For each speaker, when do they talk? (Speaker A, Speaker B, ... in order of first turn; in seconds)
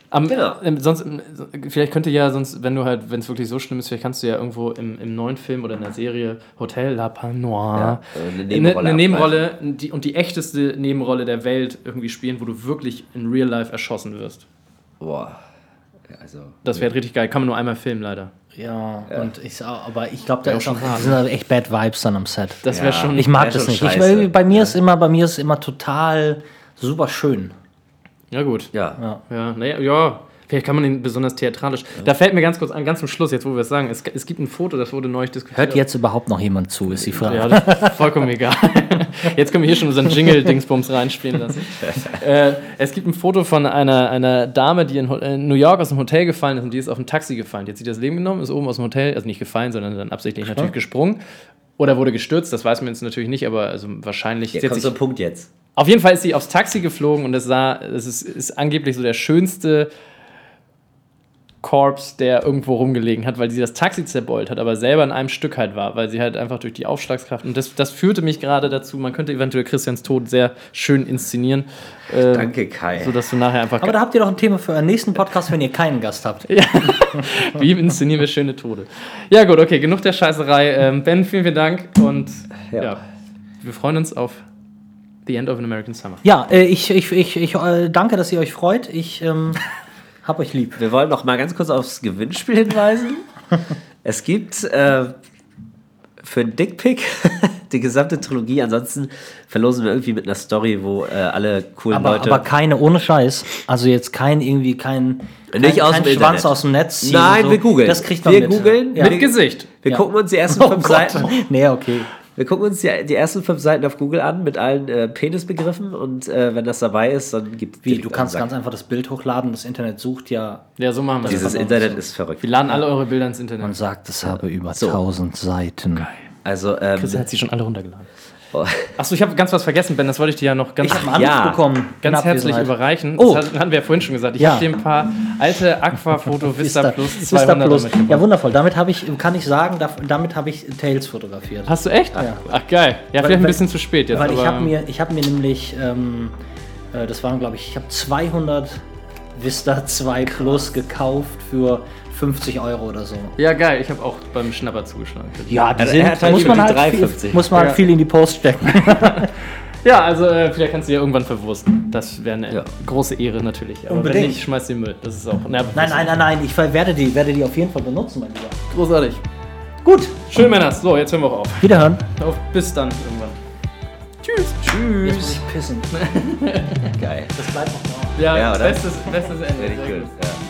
Speaker A: 0.1-14.4, 16.7-18.3, 20.4-21.2, 22.6-23.5, 28.3-28.7, 29.3-35.8, 37.2-51.2, 51.8-55.0, 55.8-59.9, 61.6-74.0, 76.5-83.0, 83.6-84.4, 85.2-86.2, 109.0-109.7, 120.8-123.8, 127.0-128.1, 129.0-131.2, 132.0-138.2, 141.7-144.7, 153.4-156.8, 157.5-157.8, 158.8-159.3, 159.8-166.2, 168.7-169.2, 170.3-173.4, 174.2-177.0, 178.1-180.1
Speaker B: 0.3-0.6, 7.8-9.4, 15.0-15.4, 16.1-16.9, 22.7-24.8, 28.7-29.0, 37.0-37.3, 54.5-55.5, 72.3-73.2, 82.7-83.0, 90.8-93.2, 94.0-95.2, 96.2-102.5, 105.5-111.4, 112.4-118.5, 121.2-122.5, 124.3-125.0, 126.5-127.2, 128.5-128.9, 131.1-131.6, 155.8-157.5, 176.9-177.4, 178.3-178.8, 179.6-180.4
Speaker C: 18.5-27.5, 35.5-38.0, 73.8-77.3, 86.2-89.6, 90.2-90.8, 101.9-109.2, 109.9-112.1, 117.8-120.6, 121.2-122.0, 123.6-126.1, 130.8-133.5, 134.4-134.7, 136.5-142.4, 143.2-143.6, 144.1-146.4, 146.9-148.8, 149.3-153.3, 155.5-159.3, 163.9-164.4, 165.7-168.7, 169.8-170.2, 171.6-172.1, 175.0-176.3, 177.4-178.2